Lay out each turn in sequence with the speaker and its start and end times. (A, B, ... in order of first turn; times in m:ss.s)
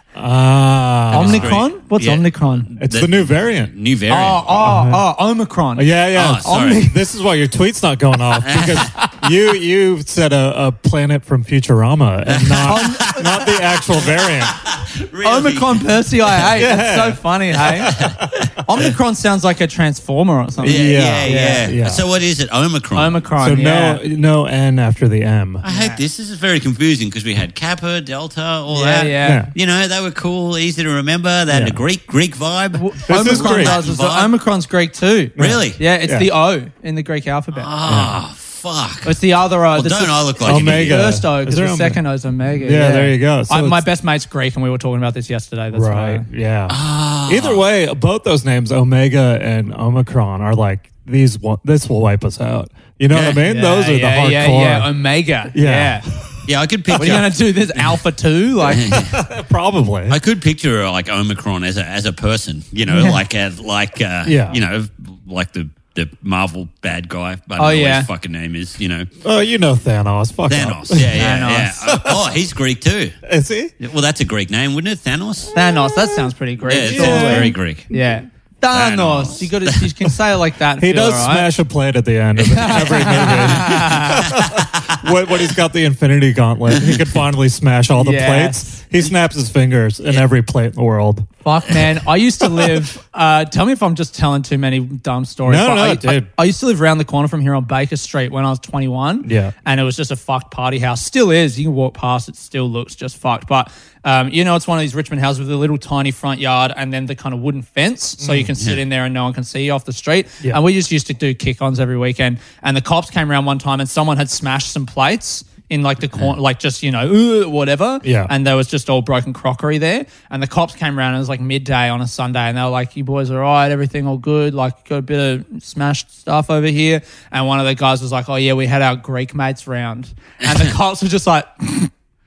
0:00.2-0:01.6 A
0:01.1-0:02.7 B
0:01.1-0:04.6 C
0:02.8-0:03.7 A
0:04.1-0:07.0 B
0:04.6-0:05.0 A
0:05.8-0:14.6 A
0:06.2-0:06.9 C
0:08.4-0:08.9 C
0:12.3-0:13.4 C
0:12.6-0:13.4 B
0:14.1-0:15.9 C
0:15.2-0:18.0 B
0:16.5-0:17.2 A
0:17.6-0:18.8 C
0:17.9-0:18.5 A
0:18.6-0:21.6 B
0:20.6-0:22.0 A
0:20.6-0:23.2 C
0:23.0-0:24.0 B
0:23.4-0:25.6 A
0:25.6-0:34.3 C
0:25.7-0:26.0 B
0:28.7-0:29.5 B
0:29.2-0:29.5 A
0:31.5-0:31.8 A
0:32.8-0:37.7 B
0:33.1-0:33.8 A
0:35.4-0:36.3 A
0:35.4-0:35.8 C
0:37.5-0:39.2 C
0:37.8-0:38.2 A
0:39.0-0:46.3 B
0:39.7-0:41.1 C
0:40.4-0:42.0 A
0:42.6-0:43.8 A
0:45.7-0:54.9 A
0:46.7-0:47.6 C
0:53.1-0:53.4 C
0:53.4-0:56.0 B
0:55.5-0:56.3 A
0:56.5-0:57.4 C
0:57.0-0:59.0 B
0:58.6-0:59.2 C
0:58.9-1:00.2 A
1:00.1-1:09.1 C
1:02.9-1:03.2 B
1:04.2-1:04.6 A
1:07.6-1:08.1 B
1:09.2-1:11.2 A
1:10.5-1:13.2 C
1:11.1-1:11.7 B
1:11.8-1:12.2 A
1:13.2-1:13.7 A
1:13.8-1:15.6 C
1:15.5-1:21.5 B
1:16.7-1:17.9 C
1:16.8-1:17.6 A
1:18.7-1:20.1 C
1:20.8-1:31.3 A
1:22.4-1:25.0 C
1:22.5-1:24.2 B
1:28.0-1:28.8 B
1:31.4-2:11.9 B
1:35.4-1:36.3 A
1:39.2-1:39.5 A
1:48.2-1:48.5 A
1:58.0-1:58.3 A
2:10.4-2:10.7 C